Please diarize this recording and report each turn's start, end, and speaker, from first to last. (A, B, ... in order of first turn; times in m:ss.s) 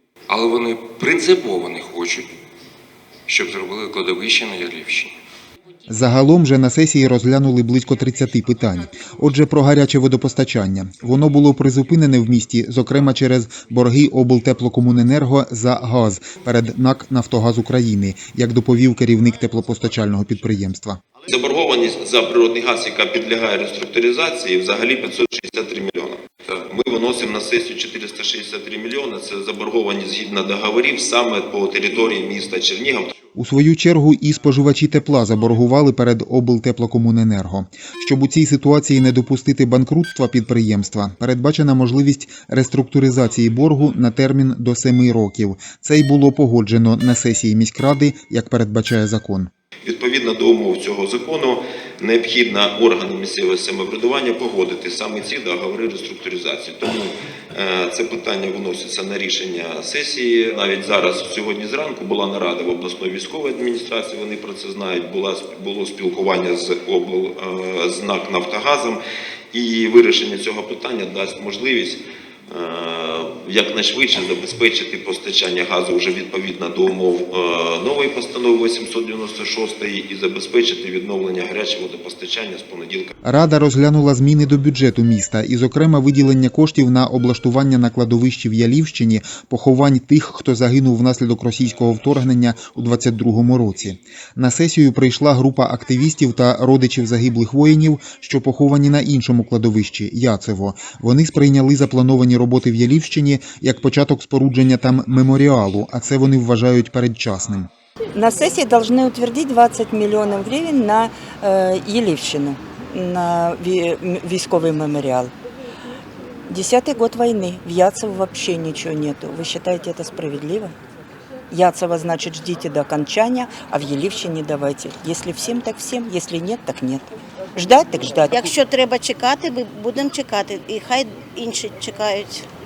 0:00.3-0:02.3 A
0:03.3-0:05.1 A
0:05.9-0:21.0 B
0:21.3-0:33.1 C
0:33.4-0:49.5 B
0:49.8-1:09.0 C
1:09.5-1:23.1 C
1:23.2-1:47.7 B
1:48.1-1:55.3 D
1:56.5-2:00.7 D
2:01.5-2:08.5 D
2:08.3-2:12.5 E